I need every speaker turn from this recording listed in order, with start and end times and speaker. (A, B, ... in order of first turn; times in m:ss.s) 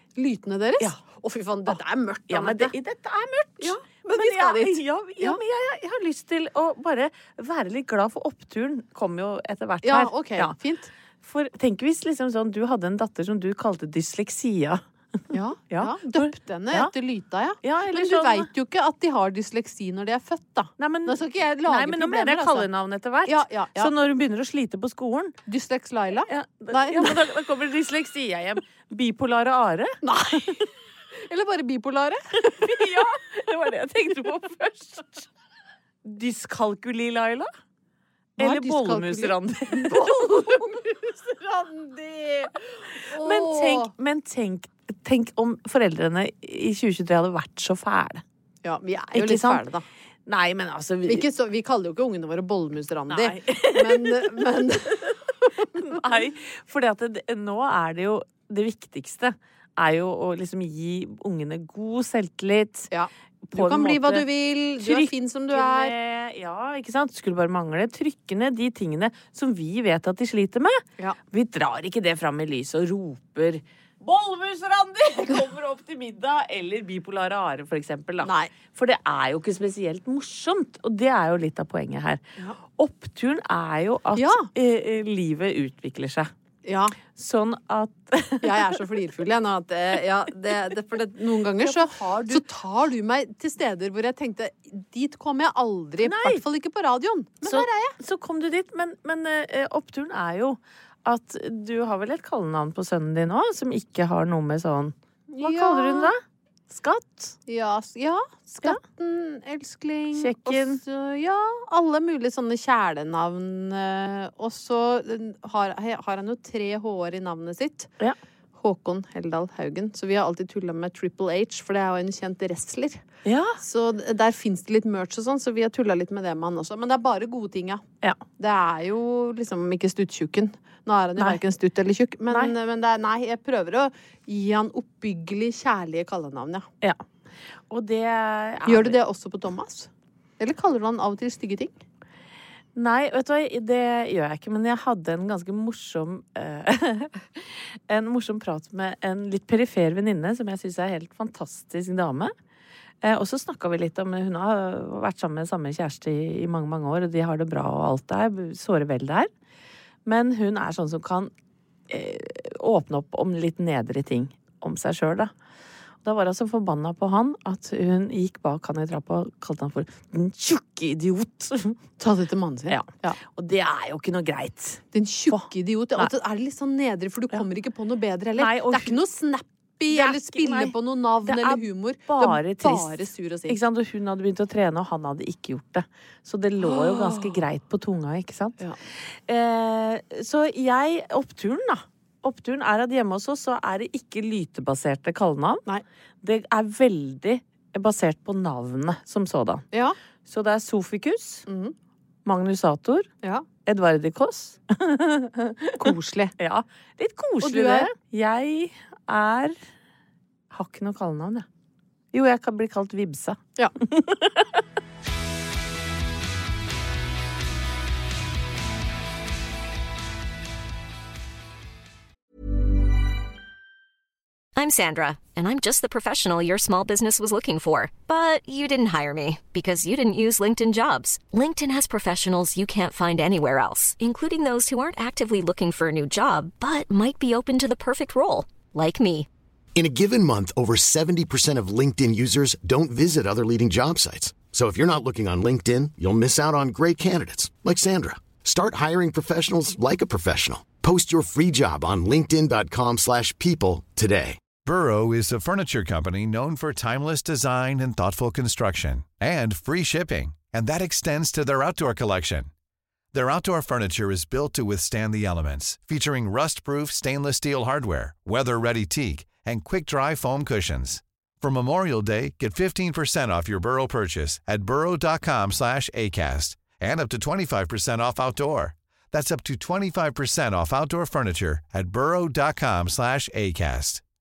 0:00.2-0:02.7 A
0:02.3-0:10.6 B
0:03.6-0:05.4 A
0:09.8-0:10.9 A
0:11.2-0:14.8 B
0:15.3-0:22.7 A
0:15.7-0:16.9 B
0:17.6-0:18.5 B
0:20.8-0:25.4 B
0:23.2-0:23.9 A
0:25.5-0:27.2 A
0:26.3-0:30.0 B
0:30.0-0:30.7 A
0:31.2-0:33.0 A
0:32.5-0:35.3 B
0:36.0-0:37.5 B
0:38.4-0:40.6 B
0:38.4-0:43.9 A
0:43.1-0:48.2 B
0:48.6-0:49.8 A
0:49.1-0:49.6 B
0:50.3-0:51.3 B
0:51.1-0:56.0 A
0:53.1-0:54.4 B
0:55.8-1:02.9 B
1:02.9-1:05.9 A
1:03.4-1:04.3 B
1:04.8-1:26.3 B
1:18.2-1:18.5 A
1:24.2-1:24.5 A
1:26.6-1:27.0 A
1:27.1-1:28.8 B
1:28.4-1:38.0 A
1:31.6-1:32.4 B
1:36.0-1:36.4 B
1:37.4-1:46.2 B
1:45.3-1:46.1 A
1:46.7-1:47.4 B
1:47.5-1:57.9 A
1:50.1-1:50.8 B
1:58.6-2:03.0 A
2:03.2-2:03.6 B
2:03.6-2:07.8 A
2:08.4-2:16.7 A
2:17.7-2:19.0 B
2:18.6-2:19.9 A
2:20.4-2:21.8 A
2:22.8-2:32.3 B
2:33.0-2:39.3 B
2:40.0-2:41.3 B
2:41.9-2:45.3 B
2:46.0-2:51.9 B
2:52.0-2:53.2 A
2:52.7-2:56.1 B
2:54.9-3:03.6 A
2:58.4-2:59.0 B
2:59.9-3:15.7 B
3:06.6-3:07.4 A
3:16.2-3:19.7 B
3:19.7-3:20.0 A
3:20.3-3:21.4 B
3:21.5-3:21.8 A
3:22.2-3:23.1 B
3:23.7-3:29.6 B
3:25.8-3:26.4 A
3:27.4-3:27.9 A
3:30.5-3:31.5 B
3:32.1-3:34.6 B
3:44.6-3:59.3 C
3:59.8-4:14.4 D
4:14.6-4:22.5 E
4:23.1-4:44.0 E